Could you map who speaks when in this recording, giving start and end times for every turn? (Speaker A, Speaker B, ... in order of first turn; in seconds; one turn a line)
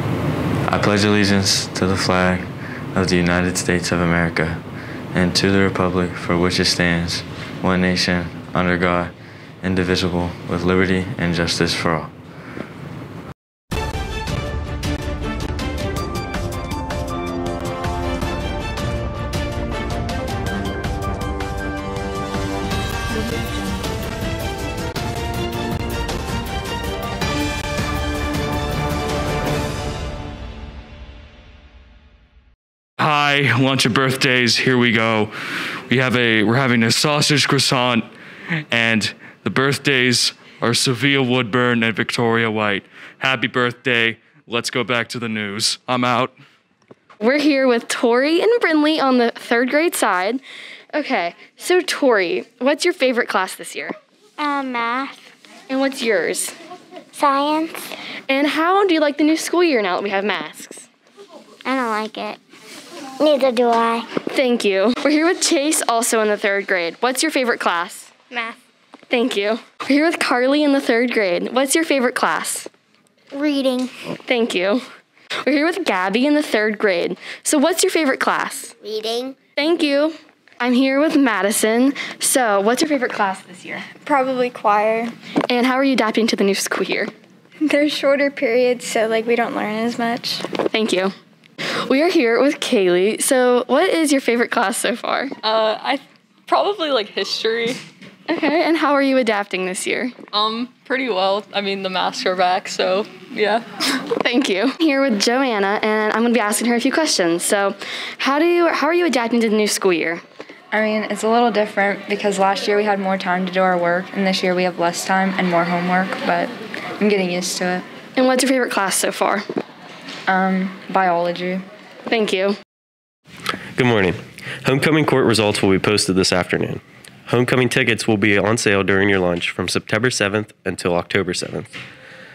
Speaker A: 0.7-4.6
Speaker A: 5.1-12.1
Speaker B: 33.0-35.3
Speaker B: 35.9-38.1
Speaker B: 38.7-46.4
Speaker C: 47.2-50.4
Speaker C: 50.9-54.0
Speaker D: 54.4-55.2
Speaker C: 55.7-56.5
Speaker D: 57.1-57.8
Speaker C: 58.3-60.9
Speaker D: 61.6-62.4
Speaker D: 63.2-64.1
Speaker C: 64.3-68.1
Speaker C: 69.1-72.7
Speaker D: 73.3-73.9
Speaker C: 74.2-74.8
Speaker C: 75.4-78.7
Speaker D: 78.8-79.3
Speaker C: 79.5-83.9
Speaker E: 84.0-85.1
Speaker C: 85.5-87.1
Speaker E: 87.6-90.4
Speaker C: 90.6-91.1
Speaker C: 91.8-95.3
Speaker F: 95.4-97.8
Speaker C: 98.3-100.1
Speaker F: 100.3-103.7
Speaker C: 104.1-110.2
Speaker G: 110.7-117.8
Speaker C: 118.2-119.4
Speaker G: 120.3-121.6
Speaker C: 122.1-122.5
Speaker H: 123.7-131.7